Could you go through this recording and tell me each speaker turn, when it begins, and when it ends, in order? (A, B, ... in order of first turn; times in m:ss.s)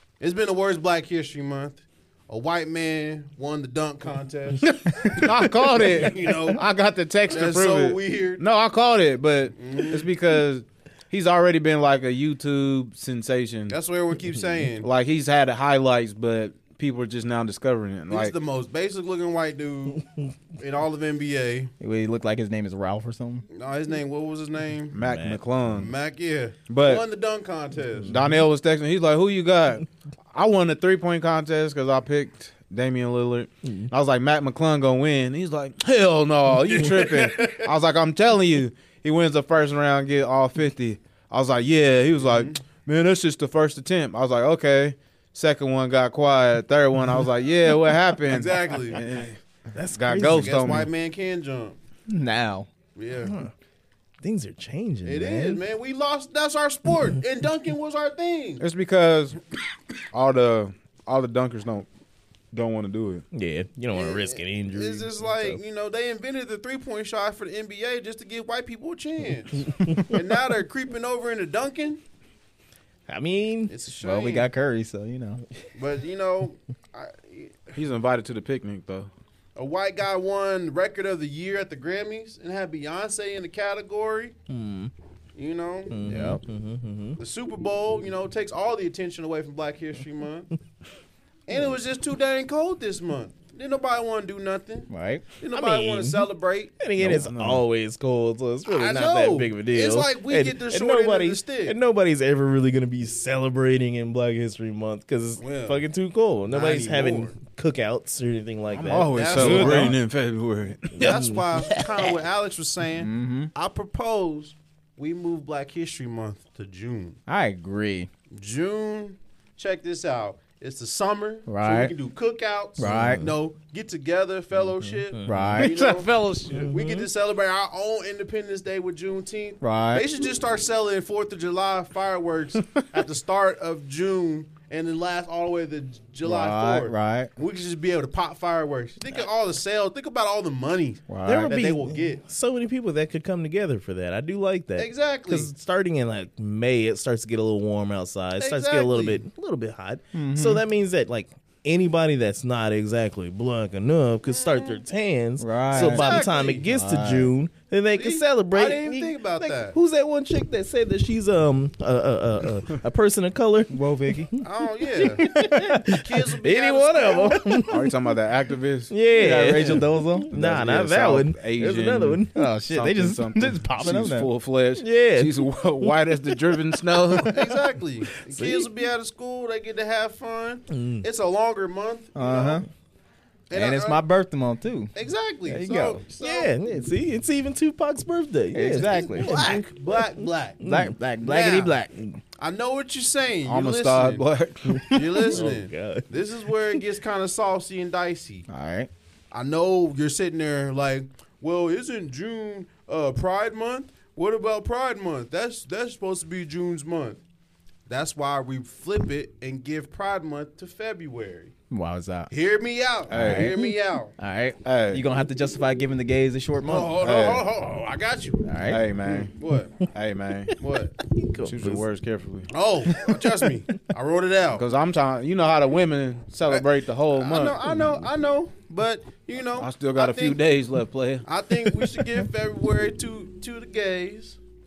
0:00.2-0:06.6 A
0:04.8-0:13.8 B
0:07.3-0:08.4 A
0:09.6-0:10.1 A
0:13.7-0:14.9 A
0:14.8-0:18.3 B
0:18.1-0:21.7 A
0:21.8-0:23.4 C
0:23.5-0:25.0 A
0:24.9-0:25.9 B
0:25.0-0:25.4 D
0:25.7-0:28.1 A
0:26.7-0:27.0 B
0:28.0-0:49.4 B
0:36.8-0:37.6 A
0:42.2-0:42.6 A
0:48.2-0:49.0 A
0:49.7-0:50.9 D
0:49.9-0:50.9 B
0:50.2-0:51.8 A
0:52.1-0:52.7 C
0:53.0-0:53.4 A
0:53.2-0:53.5 D
0:54.2-0:55.6 D
0:55.0-0:58.6 A
0:58.6-0:59.4 B
1:00.1-1:01.9 B
1:02.5-1:03.2 B
1:03.3-1:05.6 D
1:03.9-1:12.0 A
1:13.1-1:13.7 D
1:13.7-1:14.5 A
1:14.0-1:15.4 C
1:15.7-1:17.7 A
1:17.7-1:19.1 B
1:19.6-1:24.3 A
1:24.5-1:24.9 D
1:25.4-1:26.3 A
1:25.9-1:27.2 D
1:26.1-1:26.4 C
1:27.2-1:30.5 A
1:31.5-1:36.8 A
1:34.9-1:35.2 C
1:35.5-1:36.3 D
1:36.8-1:49.9 D
1:37.0-1:37.6 B
1:38.7-1:41.8 A
1:45.4-1:45.8 A
1:46.5-1:47.4 A
1:48.7-1:51.2 B
1:49.0-1:49.9 A
1:49.4-1:49.9 C
1:50.9-1:52.2 D
1:51.0-1:57.2 A
1:53.0-1:53.5 C
1:57.3-1:58.1 C
1:58.3-2:22.2 A
2:01.5-2:01.9 C
2:02.8-2:03.2 C
2:02.8-2:03.3 D
2:04.8-2:05.6 D
2:05.2-2:05.7 C
2:05.6-2:06.7 B
2:06.5-2:07.1 D
2:09.6-2:10.0 C
2:16.2-2:17.3 C
2:21.1-2:21.5 C
2:21.2-2:43.7 D
2:24.8-2:25.5 A
2:28.4-2:29.2 A
2:30.1-2:30.6 C
2:34.2-2:34.8 A
2:35.4-2:37.3 C
2:35.7-2:36.7 A
2:37.9-2:39.8 A
2:43.7-2:44.3 C
2:44.3-2:47.9 D
2:44.4-2:47.6 A
2:45.2-2:45.8 C
2:47.7-2:48.9 B
2:48.9-2:52.3 D
2:49.1-2:50.7 C
2:50.4-2:57.4 B
2:52.3-2:54.3 C
2:54.8-2:56.0 D
2:57.3-3:02.6 A
2:58.3-2:58.7 D
3:00.7-3:01.0 D
3:02.1-3:02.6 C
3:03.5-3:04.0 A
3:03.5-3:04.9 C
3:04.9-3:06.5 A
3:05.5-3:06.0 C
3:06.2-3:11.0 D
3:08.5-3:09.4 C
3:08.9-3:10.6 A
3:10.6-3:12.0 C
3:11.2-3:11.8 A
3:12.4-3:14.2 A
3:13.4-3:15.3 B
3:14.7-3:16.1 D
3:14.8-3:18.4 A
3:18.5-3:18.9 C
3:19.3-3:27.2 A
3:27.9-3:31.5 A
3:31.7-3:32.3 C
3:32.3-3:34.1 A
3:33.1-3:33.6 B
3:33.1-3:33.6 C
3:34.2-3:37.1 C
3:34.6-3:35.0 B
3:36.6-3:38.4 A
3:37.0-3:37.5 B
3:38.4-3:38.8 C
3:38.6-3:39.3 B
3:39.1-3:39.8 A
3:39.9-3:40.5 B
3:40.6-3:41.0 A
3:41.0-3:41.8 D
3:41.4-3:42.5 B
3:42.5-3:44.6 A
3:44.5-3:47.9 B
3:46.5-3:50.4 A
3:49.6-3:51.2 B
3:51.2-3:54.4 A